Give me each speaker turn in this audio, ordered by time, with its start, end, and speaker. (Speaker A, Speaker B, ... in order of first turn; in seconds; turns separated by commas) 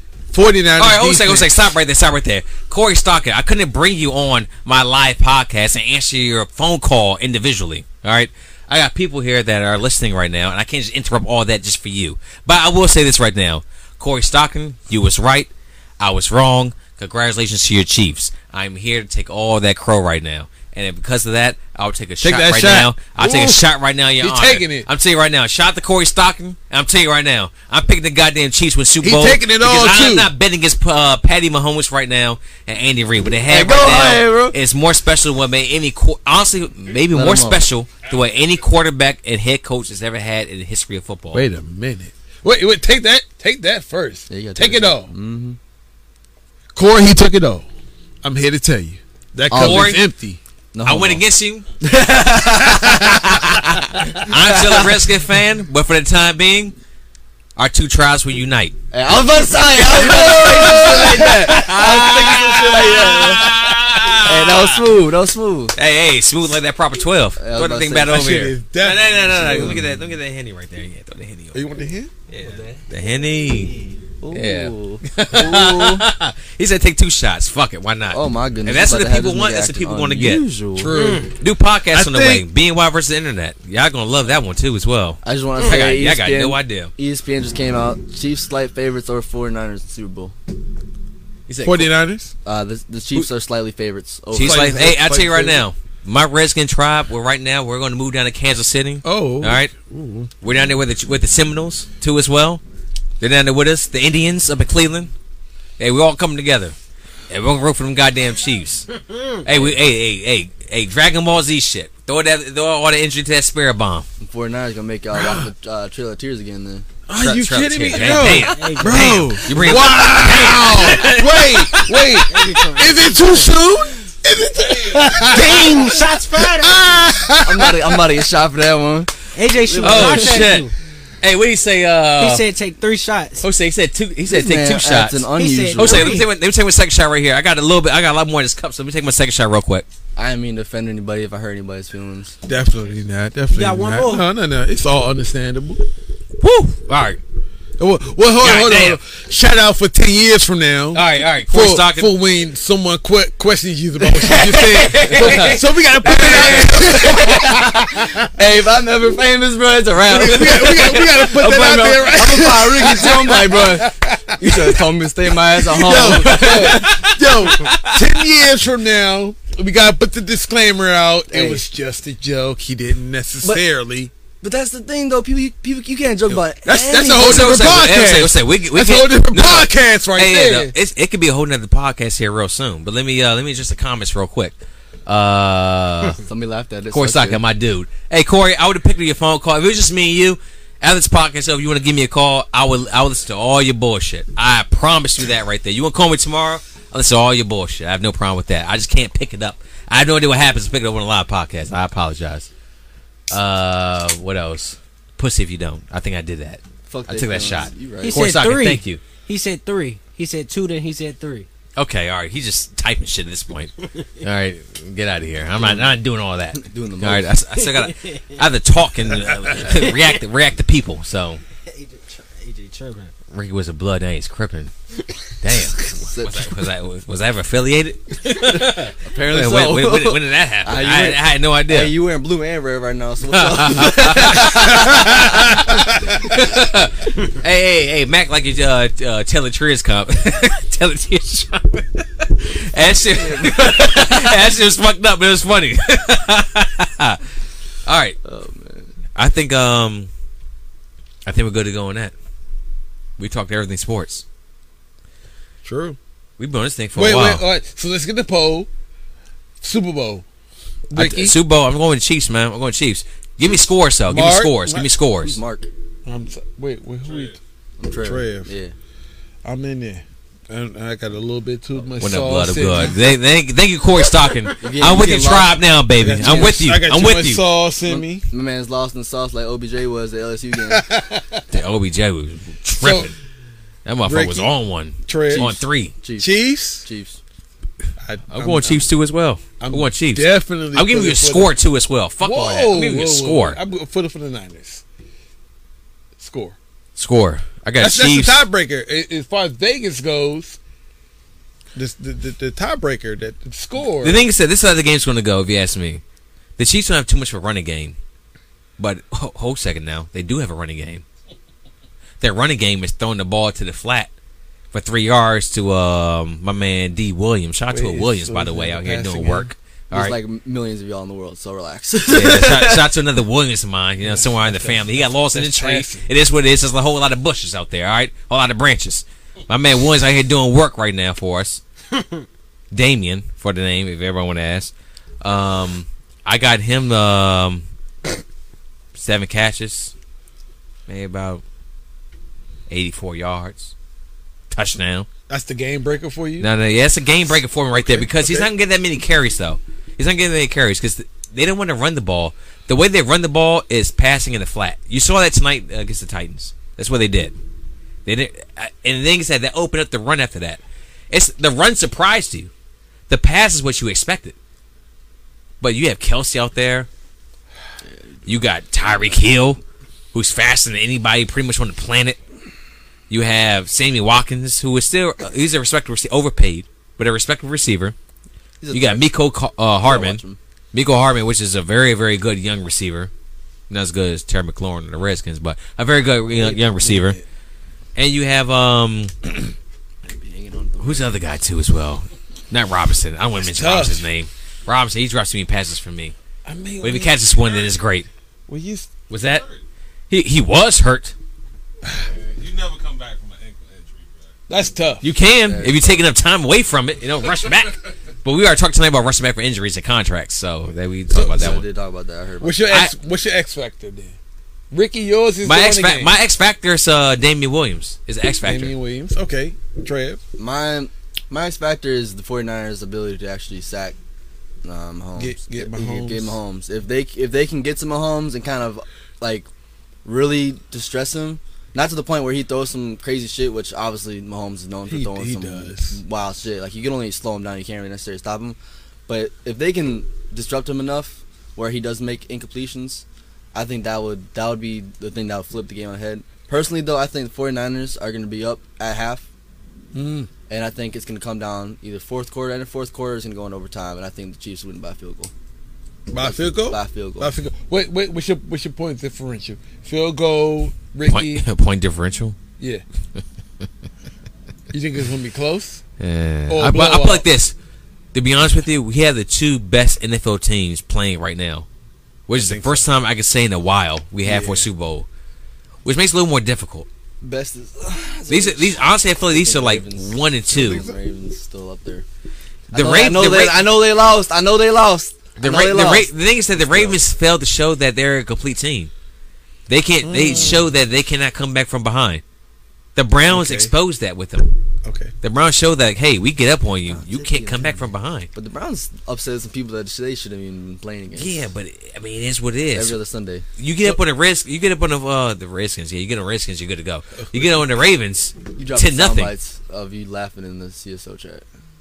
Speaker A: 0.3-1.5, Speaker B: 0.8-41.4, Speaker A: 22.2-23.6, Speaker A: 24.2-24.9, Speaker A: 29.0-30.3, Speaker C: 33.5-34.6, Speaker C: 37.1-37.6, Speaker D: 38.0-38.3, Speaker A: 41.3-45.1, Speaker C: 44.3-45.6, Speaker A: 46.7-47.7, Speaker A: 48.2-50.4, Speaker C: 49.5-50.0, Speaker B: 49.5-50.0, Speaker C: 50.7-51.2, Speaker B: 50.8-51.6, Speaker C: 51.8-55.0, Speaker A: 52.9-53.2, Speaker B: 54.1-56.7, Speaker B: 57.5-58.7, Speaker C: 58.9-63.6, Speaker B: 59.7-64.9, Speaker A: 60.2-61.0, Speaker C: 64.2-65.7, Speaker B: 65.7-71.6, Speaker C: 67.4-68.3, Speaker A: 68.1-69.8, Speaker C: 69.3-69.8, Speaker A: 71.5-72.1, Speaker B: 72.3-73.8, Speaker E: 72.5-74.0, Speaker C: 74.2-76.0, Speaker B: 74.3-86.9, Speaker C: 78.1-81.0, Speaker A: 80.8-81.3, Speaker A: 81.9-82.5, Speaker C: 85.2-90.3, Speaker B: 91.5-91.9, Speaker A: 91.6-92.3, Speaker C: 92.4-94.8, Speaker B: 94.3-99.7, Speaker A: 94.3-95.6, Speaker A: 99.0-100.3, Speaker B: 100.4-102.6, Speaker B: 103.2-105.1, Speaker B: 105.8-106.7, Speaker B: 107.3-108.9, Speaker B: 109.4-114.1, Speaker C: 114.2-116.9, Speaker A: 115.1-115.5, Speaker A: 117.1-128.1, Speaker B: 117.2-122.2, Speaker E: 118.1-119.8, Speaker E: 122.2-123.5, Speaker D: 124.6-125.3, Speaker E: 125.2-127.1, Speaker C: 127.4-130.5, Speaker E: 129.3-130.7, Speaker B: 129.8-130.7, Speaker B: 131.2-132.4, Speaker E: 132.2-133.5, Speaker B: 133.4-139.8, Speaker C: 134.3-136.2, Speaker E: 135.3-136.3, Speaker C: 140.2-142.4, Speaker A: 142.4-145.8, Speaker E: 143.5-144.3, Speaker B: 146.4-147.2, Speaker A: 147.8-158.3, Speaker B: 148.4-149.0, Speaker B: 150.9-152.1, Speaker B: 154.2-157.0, Speaker C: 154.6-167.2, Speaker A: 160.1-164.9, Speaker A: 165.5-174.1, Speaker B: 166.3-166.9, Speaker B: 167.5-168.0, Speaker C: 171.3-171.6, Speaker C: 174.4-177.8, Speaker A: 176.3-180.7, Speaker B: 177.1-184.5, Speaker B: 185.1-186.2, Speaker C: 186.2-187.4, Speaker B: 186.9-202.5, Speaker B: 203.3-209.0, Speaker C: 206.9-208.3, Speaker E: 208.0-211.5, Speaker B: 211.8-221.4, Speaker C: 215.6-215.9, Speaker C: 216.5-217.4, Speaker E: 217.8-218.3, Speaker E: 219.7-220.0, Speaker E: 221.7-223.1, Speaker B: 223.3-224.7, Speaker B: 225.4-231.9, Speaker C: 225.8-226.5, Speaker C: 228.3-235.7, Speaker B: 233.3-247.2, Speaker A: 235.6-236.1, Speaker C: 243.1-244.4, Speaker B: 247.8-248.2, Speaker C: 248.2-248.9, Speaker B: 249.2-250.1, Speaker B: 251.2-252.1, Speaker B: 253.2-254.2, Speaker A: 255.6-256.0, Speaker B: 256.4-257.4, Speaker A: 256.9-258.7, Speaker A: 259.6-260.2, Speaker A: 260.9-261.4, Speaker B: 260.9-265.4, Speaker A: 264.1-264.9, Speaker C: 265.2-265.7, Speaker A: 266.1-267.3, Speaker D: 267.0-267.4, Speaker C: 267.8-268.7, Speaker A: 268.0-268.5, Speaker A: 269.4-273.0, Speaker B: 272.0-277.4, Speaker C: 274.6-275.6, Speaker A: 276.0-278.3, Speaker C: 276.2-276.6, Speaker C: 277.8-280.9, Speaker A: 280.7-281.4, Speaker B: 281.5-283.1, Speaker A: 282.8-283.1, Speaker B: 283.8-285.9, Speaker A: 284.0-284.5, Speaker A: 285.1-285.6, Speaker C: 286.0-287.2, Speaker A: 286.2-286.9, Speaker A: 288.0-288.8, Speaker B: 288.3-293.6, Speaker A: 289.6-291.5, Speaker A: 292.2-294.8, Speaker A: 296.2-296.6, Speaker B: 296.9-298.4, Speaker A: 297.8-300.6, Speaker A: 301.7-304.2, Speaker B: 304.0-306.0, Speaker B: 306.6-307.9, Speaker B: 308.8-311.0, Speaker B: 312.2-314.1, Speaker B: 314.7-320.1, Speaker A: 317.7-319.5, Speaker C: 319.9-322.9, Speaker B: 322.1-331.6, Speaker A: 324.0-326.1, Speaker B: 332.7-337.6, Speaker B: 338.9-339.9, Speaker B: 340.9-341.4, Speaker B: 342.7-343.7, Speaker B: 344.5-345.1, Speaker A: 345.3-346.5, Speaker B: 346.4-357.3, Speaker A: 347.8-348.5, Speaker B: 358.0-362.5, Speaker B: 363.1-364.4, Speaker B: 365.6-366.9, Speaker B: 368.2-369.6, Speaker B: 370.1-372.2, Speaker B: 373.1-377.9, Speaker C: 378.6-379.1, Speaker B: 378.7-380.2, Speaker C: 379.8-380.4, Speaker B: 380.7-383.1, Speaker B: 383.7-387.2, Speaker A: 386.3-387.2, Speaker B: 387.9-389.3, Speaker C: 390.0-391.1, Speaker B: 390.8-396.1, Speaker A: 393.4-394.1, Speaker A: 396.4-397.2, Speaker B: 396.8-398.1, Speaker A: 398.5-398.9, Speaker B: 399.1-399.4, Speaker D: 399.2-399.6, Speaker B: 400.1-401.1, Speaker A: 401.8-402.1, Speaker D: 402.0-404.4, Speaker A: 404.5-405.1, Speaker B: 405.0-411.6, Speaker C: 405.4-406.0, Speaker A: 411.1-411.6, Speaker C: 411.3-412.6, Speaker A: 412.4-414.1, Speaker A: 414.7-416.1, Speaker B: 415.4-418.7, Speaker A: 418.4-420.2, Speaker C: 420.4-423.9, Speaker C: 424.6-429.5, Speaker A: 425.1-426.4, Speaker C: 430.0-449.3, Speaker A: 434.9-436.0, Speaker A: 449.9-450.3, Speaker C: 450.5-455.3, Speaker A: 456.1-461.4, Speaker C: 456.2-457.3, Speaker B: 461.1-462.4, Speaker A: 464.7-465.8, Speaker B: 466.0-467.5, Speaker A: 466.5-467.2, Speaker B: 468.1-471.7, Speaker B: 472.3-475.1, Speaker A: 472.3-472.9, Speaker A: 474.2-474.7, Speaker B: 475.8-476.9, Speaker C: 477.2-482.1, Speaker B: 478.3-480.9, Speaker A: 480.6-480.9, Speaker C: 482.7-487.0, Speaker B: 482.7-483.7, Speaker B: 485.4-488.9, Speaker B: 489.7-492.2, Speaker A: 490.0-490.7, Speaker B: 492.9-494.5, Speaker A: 493.2-493.7, Speaker A: 494.8-495.1, Speaker B: 495.2-498.3, Speaker C: 496.9-497.8, Speaker C: 498.3-501.5, Speaker B: 501.1-503.0, Speaker C: 502.7-503.4, Speaker B: 503.6-509.3, Speaker A: 507.2-507.6, Speaker C: 508.6-511.4